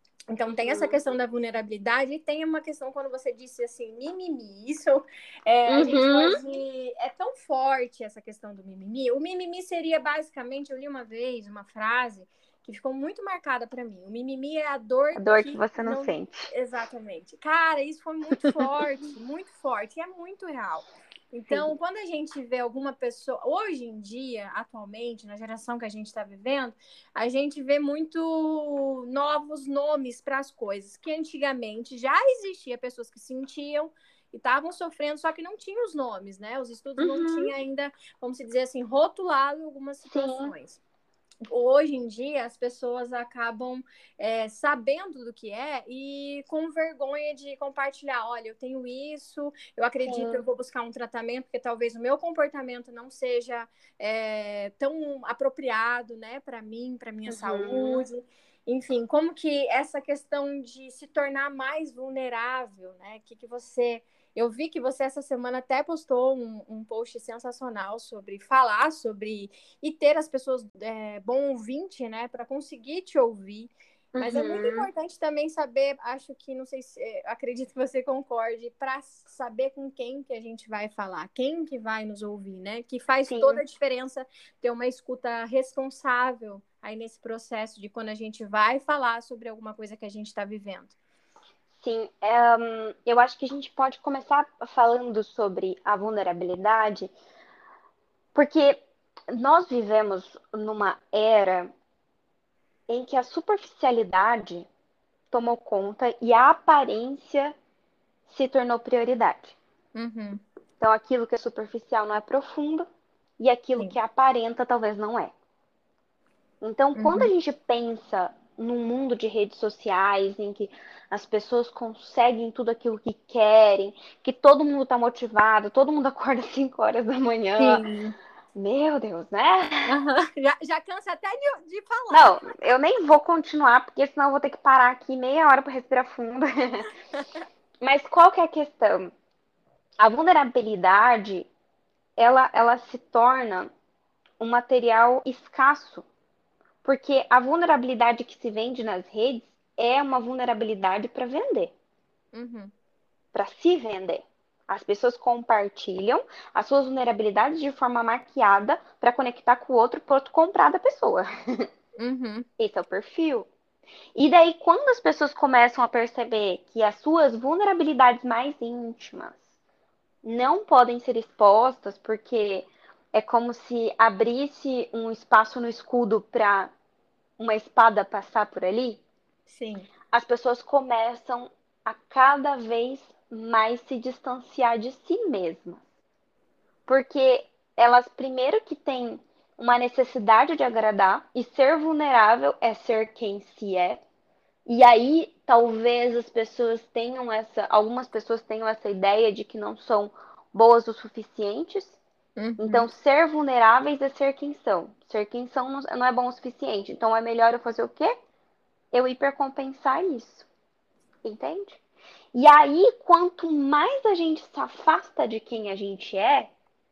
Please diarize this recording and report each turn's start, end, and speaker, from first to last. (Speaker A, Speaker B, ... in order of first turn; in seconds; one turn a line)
Speaker A: 0.3-40.8
Speaker B: 0.6-0.9
Speaker B: 5.7-6.4
Speaker B: 15.1-16.5
Speaker B: 37.0-37.5
Speaker B: 40.1-40.5
Speaker A: 41.5-90.9
Speaker B: 50.0-50.4
Speaker B: 57.3-58.0
Speaker B: 74.1-74.9
Speaker B: 83.2-83.6
Speaker B: 91.8-97.1
Speaker B: 98.3-101.7
Speaker B: 102.9-104.7
Speaker B: 105.3-107.5
Speaker B: 108.3-109.6
Speaker A: 109.9-110.4
Speaker B: 110.8-112.9
Speaker B: 113.4-115.3
Speaker B: 116.6-127.8
Speaker A: 117.0-117.3
Speaker A: 127.6-128.1
Speaker B: 128.5-129.9
Speaker A: 129.9-132.4
Speaker B: 132.1-136.9
Speaker B: 137.8-139.1
Speaker B: 140.0-141.5
Speaker B: 142.2-143.7
Speaker B: 144.4-146.1
Speaker B: 146.8-151.7
Speaker A: 152.3-152.7
Speaker B: 153.3-161.7
Speaker A: 162.0-162.4
Speaker B: 162.6-163.5
Speaker B: 164.2-169.4
Speaker B: 170.2-176.7
Speaker B: 177.4-179.0
Speaker A: 179.5-179.9
Speaker B: 180.1-185.8
Speaker B: 186.9-194.0
Speaker B: 194.7-202.0
Speaker A: 202.4-202.9
Speaker B: 202.6-208.2
Speaker B: 208.9-210.5
Speaker B: 211.2-211.8
Speaker B: 212.3-216.5